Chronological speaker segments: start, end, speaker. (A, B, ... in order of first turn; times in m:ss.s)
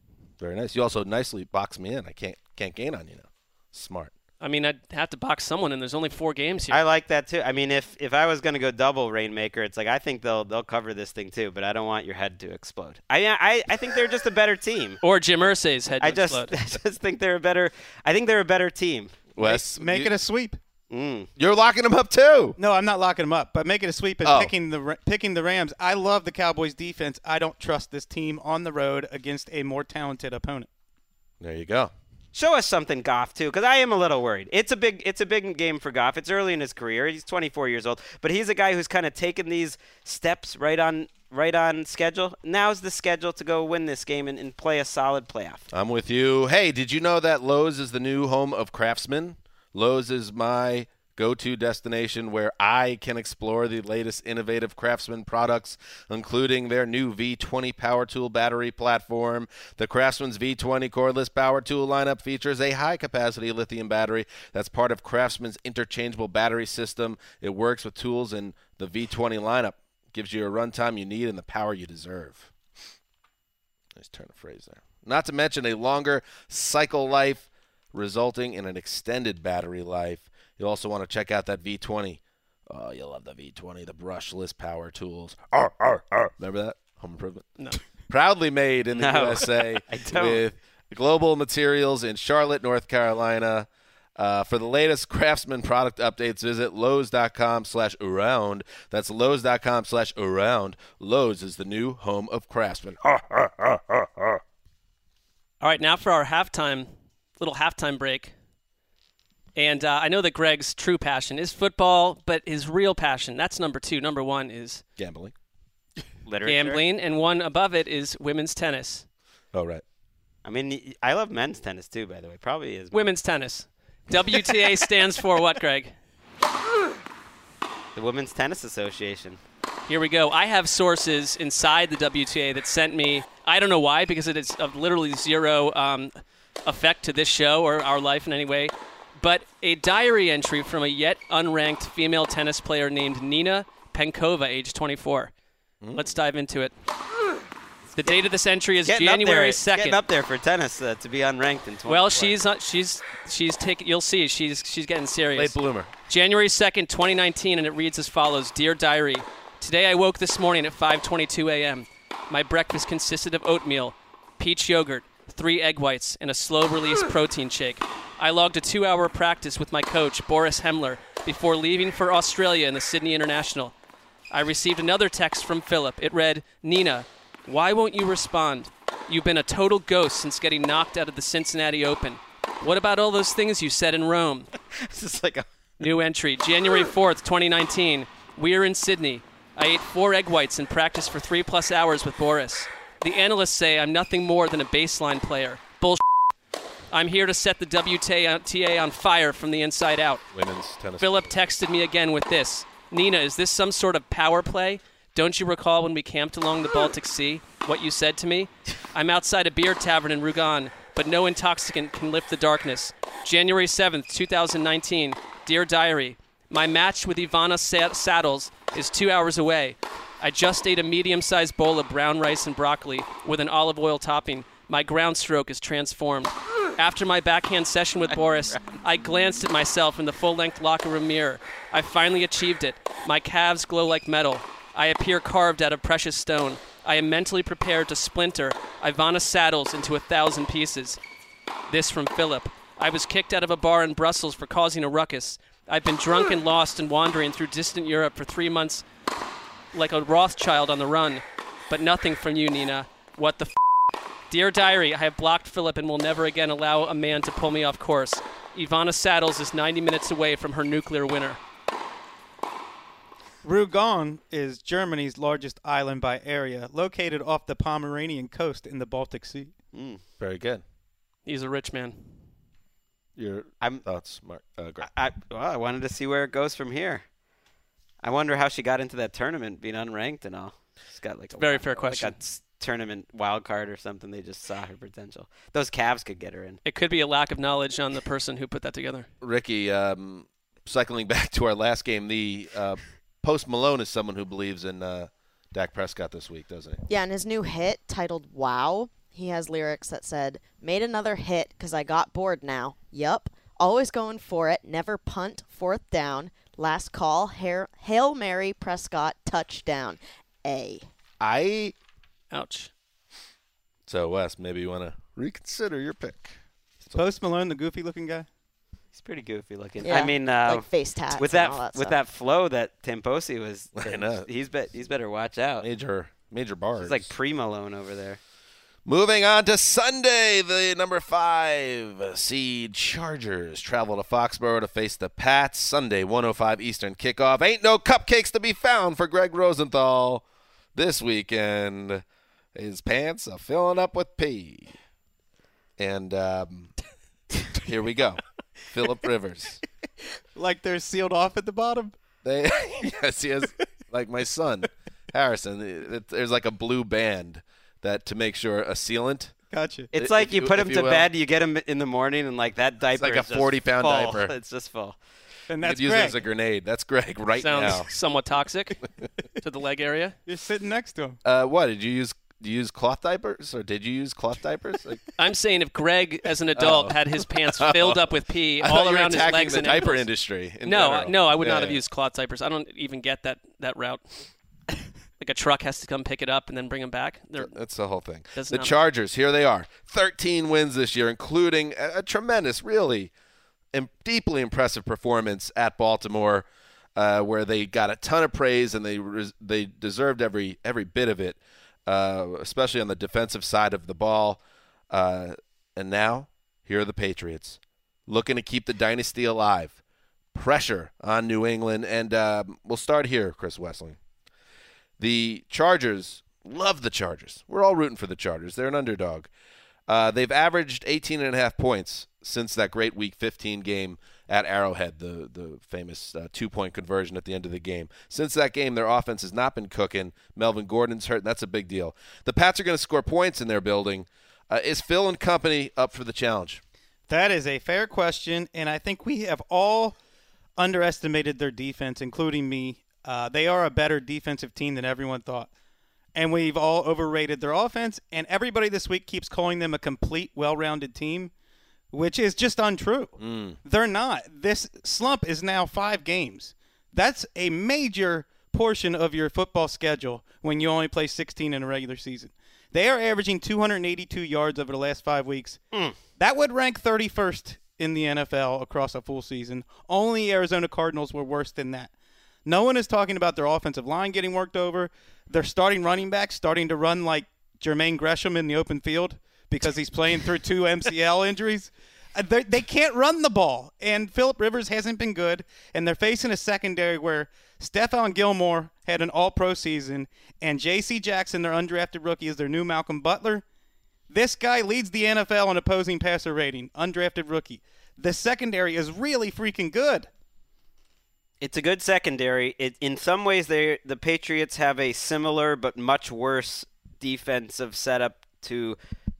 0:00.4-0:04.1 A
0:04.4-0:06.8 B
0:06.7-0:15.0 C
0:15.0-0:16.5 B
0:16.0-0:19.3 C
0:19.4-0:20.1 A
0:19.4-0:20.6 D
0:20.9-0:21.3 C
0:21.4-0:22.6 A
0:22.6-0:30.7 D
0:24.2-0:24.5 A
0:31.4-0:31.9 A
0:32.3-0:45.7 C
0:45.7-1:12.5 A
1:13.9-1:27.4 A
1:28.1-1:44.4 A
1:28.9-1:30.4 C
1:45.6-1:48.3 B
1:49.6-1:54.8 B
1:55.0-1:55.3 A
1:56.2-1:56.8 C
1:56.4-1:59.0 B
1:59.5-1:59.8 A
2:00.4-2:03.0 C
2:02.9-2:05.9 B
2:08.0-2:09.4 C
2:09.9-2:16.1 B
2:16.6-2:25.3 B
2:25.9-2:26.7 B
2:27.9-2:30.0 B
2:28.8-2:32.4 C
2:31.9-2:35.5 B
2:35.3-2:35.9 A
2:36.1-2:53.7 B
2:54.3-3:04.5 B
3:04.8-3:05.4 C
3:05.8-3:16.0 B
3:16.9-3:20.3 B
3:20.3-3:21.4 A
3:21.0-4:01.0 B
4:01.7-4:08.8 B
4:09.7-4:13.6 B
4:14.3-4:21.4 B
4:23.4-4:29.5 D
4:29.7-4:30.0 C
4:30.2-4:30.6 A
4:31.2-4:32.1 B
4:33.2-4:34.9 A
4:34.8-4:37.0 C
4:38.0-4:46.6 C
4:41.4-4:42.1 B
4:46.6-4:49.1 B
4:49.2-4:56.8 A
4:56.9-5:10.9 E
5:11.2-5:11.7 A
5:12.3-5:12.7 B
5:13.9-5:17.0 A
5:16.9-5:18.3 D
5:18.9-5:25.6 C
5:19.8-5:22.0 E
5:23.8-5:24.2 A
5:25.6-5:27.1 A
5:26.8-5:28.2 C
5:28.8-5:40.2 A
5:40.7-5:42.0 A
5:42.5-5:44.7 A
5:45.8-5:46.7 A
5:47.5-5:49.6 A
5:50.3-5:51.9 D
5:52.2-5:59.3 A
5:59.5-5:59.9 D
5:59.9-6:05.0 C
5:59.9-6:01.1 A
6:02.9-6:04.3 A
6:05.5-6:06.2 D
6:05.6-6:07.9 A
6:07.4-6:08.8 B
6:09.4-6:10.2 B
6:10.2-6:11.2 D
6:11.2-6:15.0 A
6:15.2-6:20.0 B
6:16.6-6:21.8 A
6:20.6-6:24.2 B
6:25.2-6:27.5 B
6:27.4-6:33.1 A
6:28.3-6:28.7 B
6:33.7-6:49.8 A
6:50.3-6:54.0 A
6:55.0-6:59.3 A
6:59.9-7:16.6 A
7:17.1-7:20.0 D
7:20.6-7:25.5 D
7:26.1-7:31.3 D
7:31.9-7:33.1 D
7:33.2-7:33.6 A
7:33.6-7:45.6 D
7:46.2-7:51.9 D
7:52.4-8:13.4 D
8:14.1-8:20.1 D
8:21.4-8:28.8 C